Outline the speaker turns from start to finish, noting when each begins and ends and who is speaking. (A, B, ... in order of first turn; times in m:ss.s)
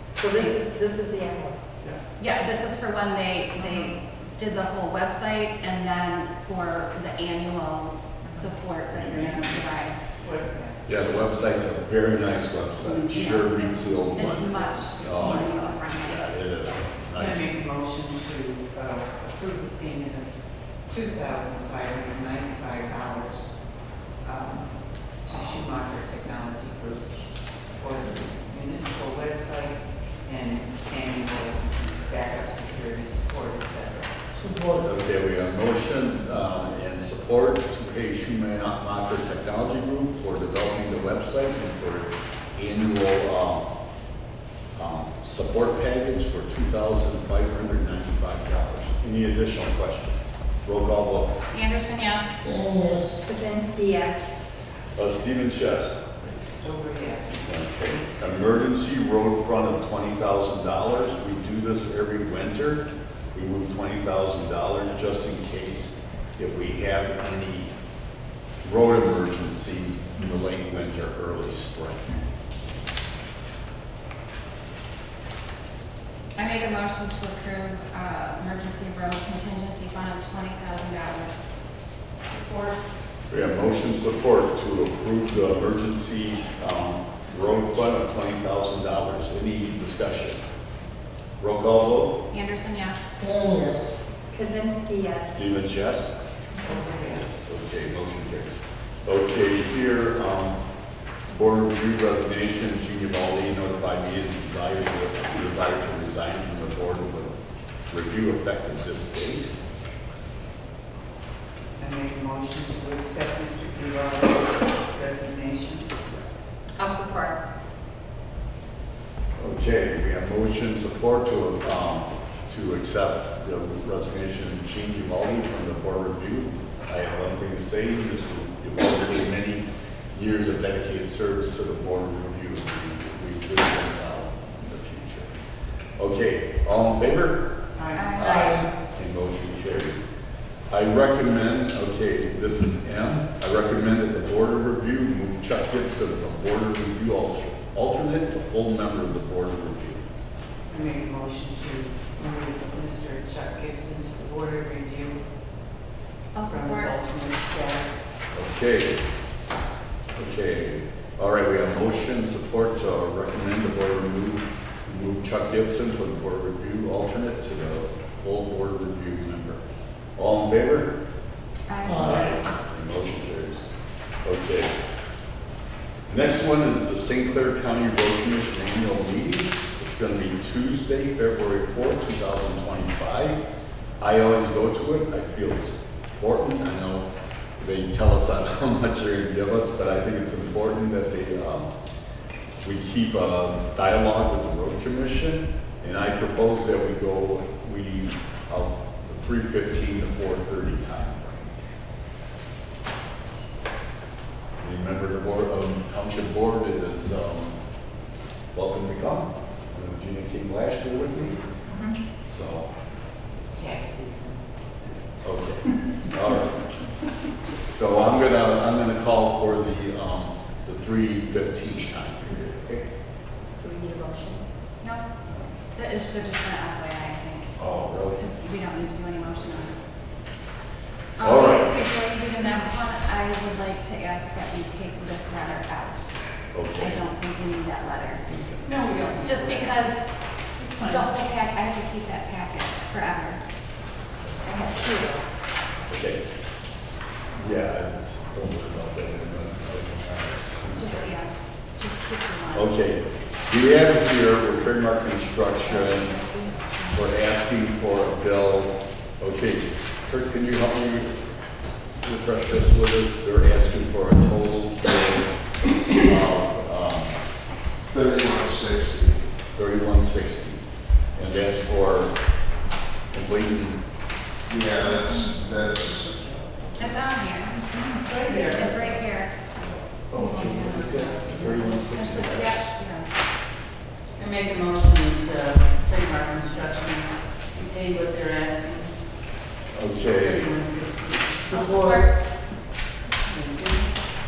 0:00.2-0:01.8 A
0:00.3-0:00.6 B
0:02.2-0:10.0 B
0:08.9-0:09.6 C
0:09.1-0:10.8 D
0:10.8-0:17.5 C
0:12.8-0:16.2 B
0:17.1-0:34.1 D
0:34.3-0:43.7 C
0:44.7-0:51.4 C
0:51.5-0:52.4 B
0:52.8-0:54.3 A
0:55.0-0:56.4 C
0:56.4-0:57.5 D
0:57.3-1:07.7 C
1:08.6-1:12.2 C
1:16.4-1:21.4 B
1:22.2-1:22.8 D
1:23.3-1:30.4 C
1:31.4-1:32.2 C
1:32.3-1:33.2 B
1:33.3-1:35.4 A
1:35.3-1:36.1 C
1:36.6-1:37.4 D
1:37.1-1:40.6 C
1:41.3-1:47.4 C
1:47.9-1:49.5 C
1:51.8-1:56.0 D
1:56.8-1:57.4 A
1:59.4-2:15.3 C
2:16.0-2:17.5 C
2:17.8-2:18.6 D
2:17.9-2:18.5 B
2:18.2-2:20.0 C
2:20.7-2:30.0 C
2:30.7-2:35.2 D
2:36.3-2:36.9 B
2:36.5-2:38.0 D
2:38.3-2:39.0 C
2:40.2-2:49.6 C
2:50.2-2:50.9 C
2:51.7-2:52.5 B
2:51.8-2:53.6 C
2:54.2-2:54.7 C
2:56.1-3:03.4 C
3:04.0-3:07.0 C
3:07.6-3:11.7 C
3:12.6-3:21.5 C
3:24.6-3:27.6 C
3:28.5-3:31.4 C
3:32.2-3:32.7 C
3:33.3-3:34.4 D
3:35.2-3:36.6 C
3:37.7-3:42.8 C
3:43.6-3:44.4 A
3:44.8-3:45.1 B
3:45.2-3:45.5 C
3:45.7-3:49.8 B
3:47.6-3:48.2 C
3:51.2-3:56.2 B
3:51.2-3:51.8 C
3:56.5-3:57.0 C
3:56.8-3:58.2 B
3:58.2-3:58.7 C
3:58.6-3:59.8 D
3:59.1-4:00.1 B
4:00.6-4:01.1 D
4:00.8-4:03.4 B
4:04.4-4:05.4 A
4:05.9-4:06.2 C
4:07.3-4:11.1 C
4:10.8-4:12.7 B
4:12.5-4:16.2 C
4:16.2-4:16.7 A
4:16.9-4:21.2 C
4:22.0-4:27.2 C
4:27.9-4:29.3 E
4:29.5-4:30.6 C
4:31.1-4:32.2 C
4:33.1-4:33.8 C
4:34.5-4:36.7 E
4:36.8-4:37.6 B
4:37.6-4:39.0 D
4:38.3-4:39.4 B
4:40.1-4:42.7 C
4:40.2-4:41.1 B
4:40.4-4:41.6 D
4:41.7-4:43.2 B
4:44.2-4:49.0 D
4:49.7-4:50.5 C
4:50.2-4:52.2 D
4:51.5-4:52.1 B
4:53.2-4:53.9 D